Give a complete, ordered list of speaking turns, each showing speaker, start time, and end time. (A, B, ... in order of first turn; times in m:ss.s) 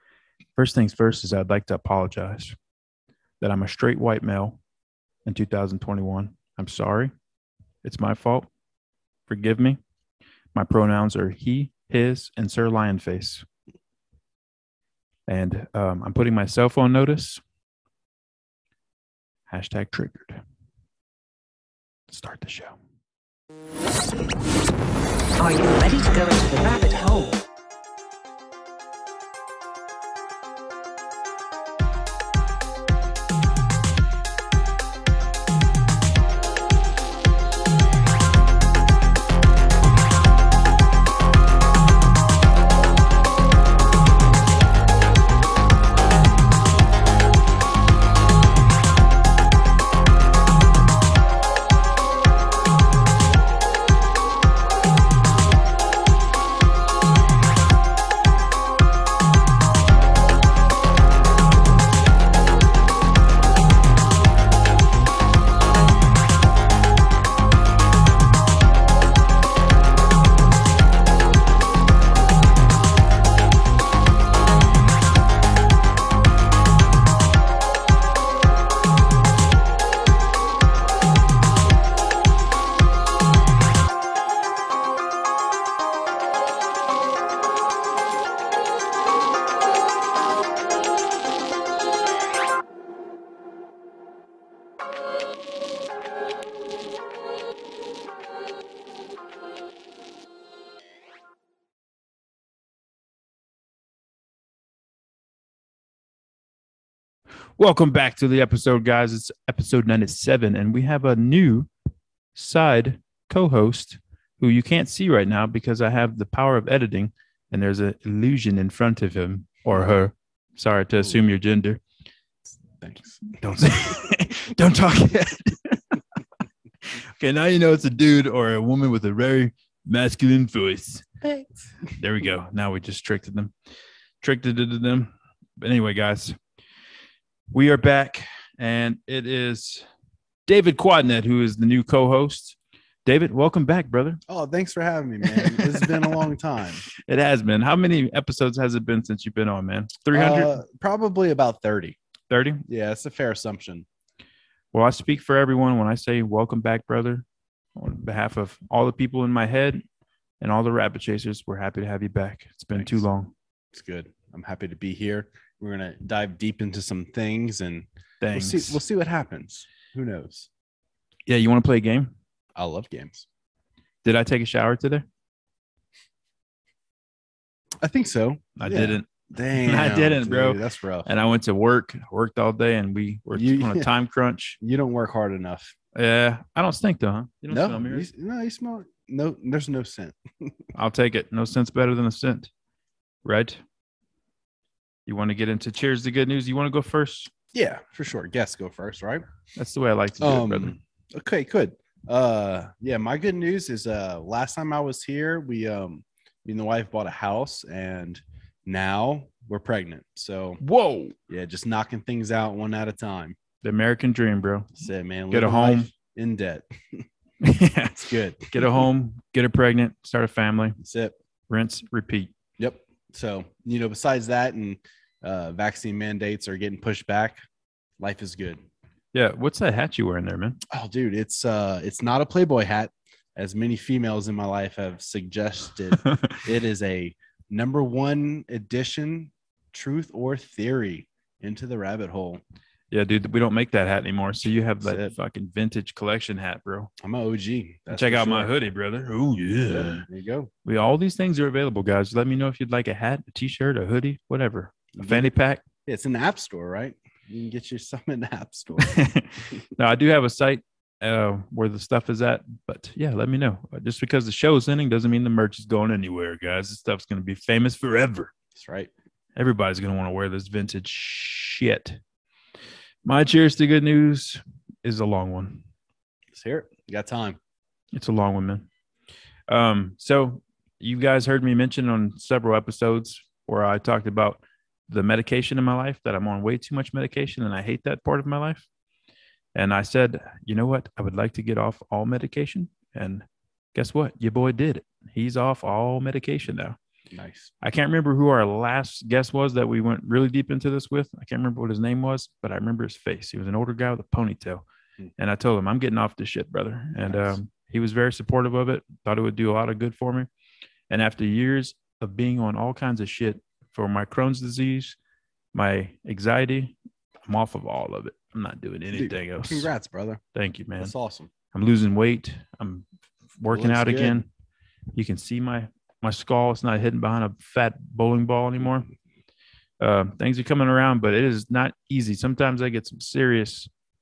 0:00.6-0:02.6 A
0:03.4-0:04.6 A
0:05.2-0:07.1 A
0:07.8-0:08.5 A
0:09.3-0:09.8 A
0:10.5-0:13.5 A
0:15.3-0:17.4 A
0:19.5-0:20.4 A
0:22.1-0:22.8 A
0:25.4-0:27.4 B
1:47.6-1:51.7 A
1:52.3-2:01.8 A
2:02.5-2:04.1 C
2:03.4-2:06.0 A
2:06.9-2:11.1 A
2:11.2-2:11.9 C
2:12.0-2:13.5 A
2:14.2-2:16.4 A
2:17.5-2:19.9 A
2:20.5-2:24.2 A
2:24.3-2:26.8 C
2:25.3-2:26.0 A
2:27.1-2:30.6 A
2:30.1-2:32.0 C
2:32.3-2:32.6 A
2:32.7-2:33.9 C
2:34.7-2:37.2 A
2:37.8-2:39.8 A
2:40.4-2:43.3 A
2:42.7-2:43.0 C
2:43.7-2:50.5 C
2:48.2-2:48.8 A
2:51.3-2:52.1 A
2:52.6-2:53.3 C
2:54.0-2:55.1 A
2:57.8-3:01.1 C
2:58.6-3:04.6 A
3:03.3-3:03.9 C
3:04.6-3:05.8 C
3:06.0-3:08.1 A
3:07.5-3:10.7 C
3:10.8-3:12.5 A
3:13.2-3:13.6 A
3:15.1-3:17.3 A
3:17.5-3:19.2 C
3:19.6-3:20.8 A
3:20.2-3:30.6 C
3:30.6-3:31.2 A
3:31.3-3:33.4 C
3:33.6-3:34.7 A
3:34.7-3:37.1 C
3:35.3-3:35.9 A
3:37.4-3:40.8 A
3:38.0-3:38.9 C
3:40.8-3:41.2 C
3:41.5-3:42.3 A
3:42.6-3:47.4 C
3:48.0-3:48.6 C
3:49.1-3:50.6 A
3:50.7-4:02.4 C
3:56.0-3:56.4 A
4:02.9-4:06.9 A
4:04.8-4:05.1 C
4:07.0-4:08.5 C
4:07.9-4:10.0 A
4:09.7-4:10.5 C
4:10.6-4:15.6 A
4:14.9-4:15.3 C
4:15.9-4:19.0 C
4:18.8-4:28.3 A
4:28.6-4:28.9 C
4:29.4-4:32.0 A
4:33.0-4:35.6 A
4:36.3-4:37.4 C
4:37.9-4:38.7 A
4:39.5-4:48.6 A
4:49.6-4:56.8 A
4:57.1-4:57.5 C
4:57.6-5:04.6 A
5:05.2-5:10.3 A
5:07.0-5:07.4 C
5:10.9-5:15.0 A
5:15.5-5:16.8 A
5:17.3-5:19.7 A
5:18.9-5:20.2 C
5:20.4-5:20.9 A
5:20.8-5:21.3 C
5:21.5-5:22.9 A
5:23.4-5:24.3 A
5:23.5-5:24.2 C
5:24.9-5:28.9 A
5:29.8-5:33.7 A